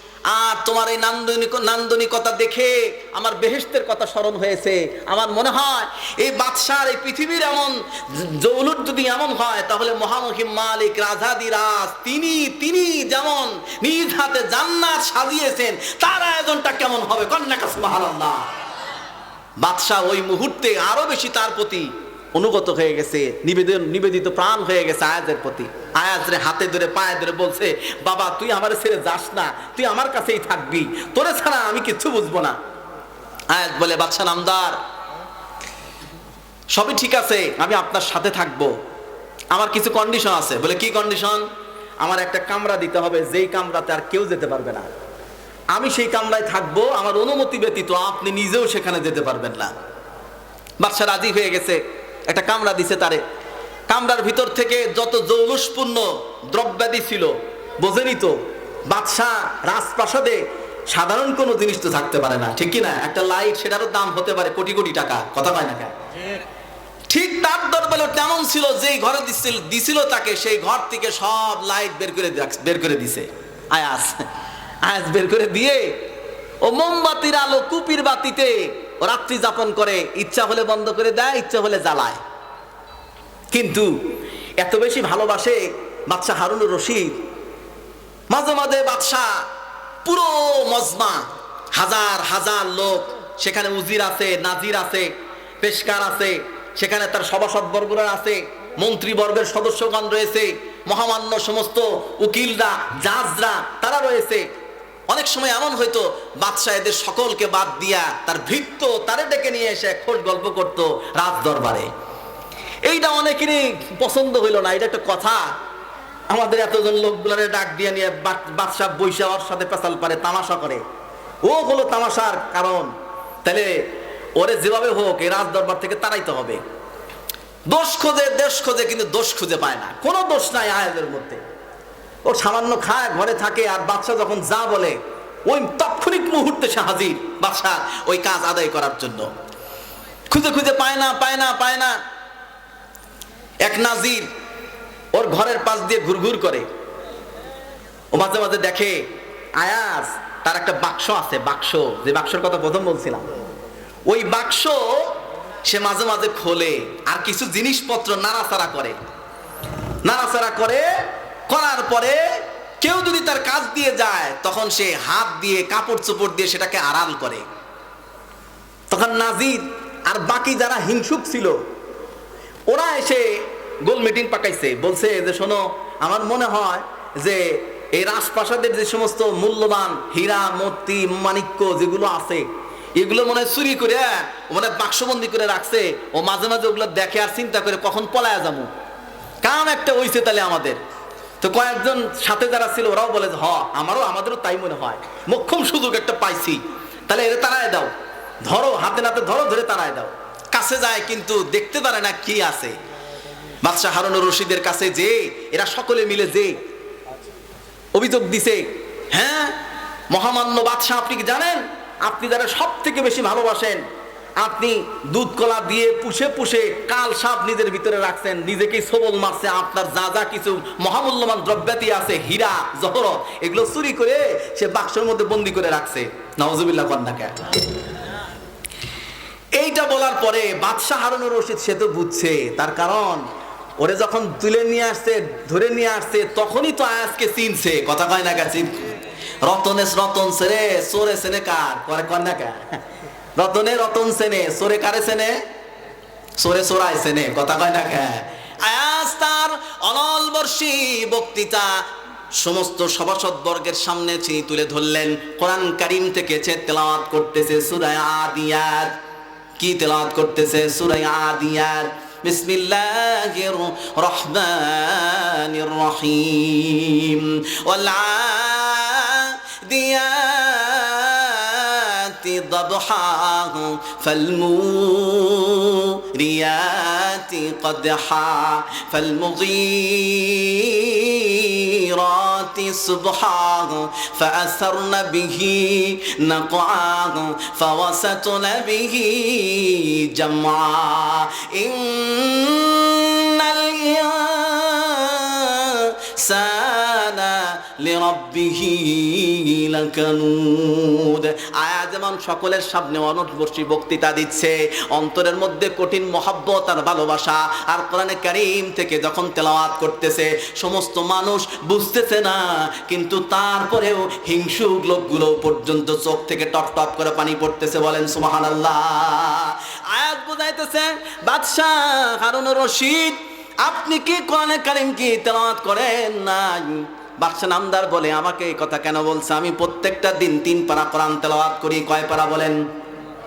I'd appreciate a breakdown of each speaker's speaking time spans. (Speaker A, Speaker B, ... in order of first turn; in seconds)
Speaker A: 0.3-18.4, 19.6-32.6, 33.5-34.8, 36.7-38.7, 39.5-41.4, 42.0-44.9, 45.7-49.7, 50.8-53.2, 53.9-58.4, 58.9-65.9, 67.1-74.2, 74.8-76.0, 76.6-82.2, 83.5-83.9, 84.6-87.2, 88.3-89.4, 90.0-95.1, 95.6-104.5, 105.1-111.9, 112.9-115.5, 116.3-120.8, 121.4-122.9, 123.4-123.8, 124.4-126.6, 127.7-131.4, 132.2-139.3, 140.3-142.0, 143.6-144.3, 145.1-146.7, 148.1-149.1, 149.6-153.2, 154.1-155.1, 155.6-158.9, 160.1-160.8, 161.5-162.2, 162.8-167.4, 168.9-171.6, 172.7-182.4, 183.0-188.7, 189.4-190.8, 191.4-197.9, 198.5-202.8, 203.6-206.6, 207.9-209.6, 210.1-213.8, 214.4-227.6, 229.6-233.2, 233.8-238.9, 239.4-242.8, 243.4-245.4, 246.4-251.8, 252.4-258.9, 259.6-332.6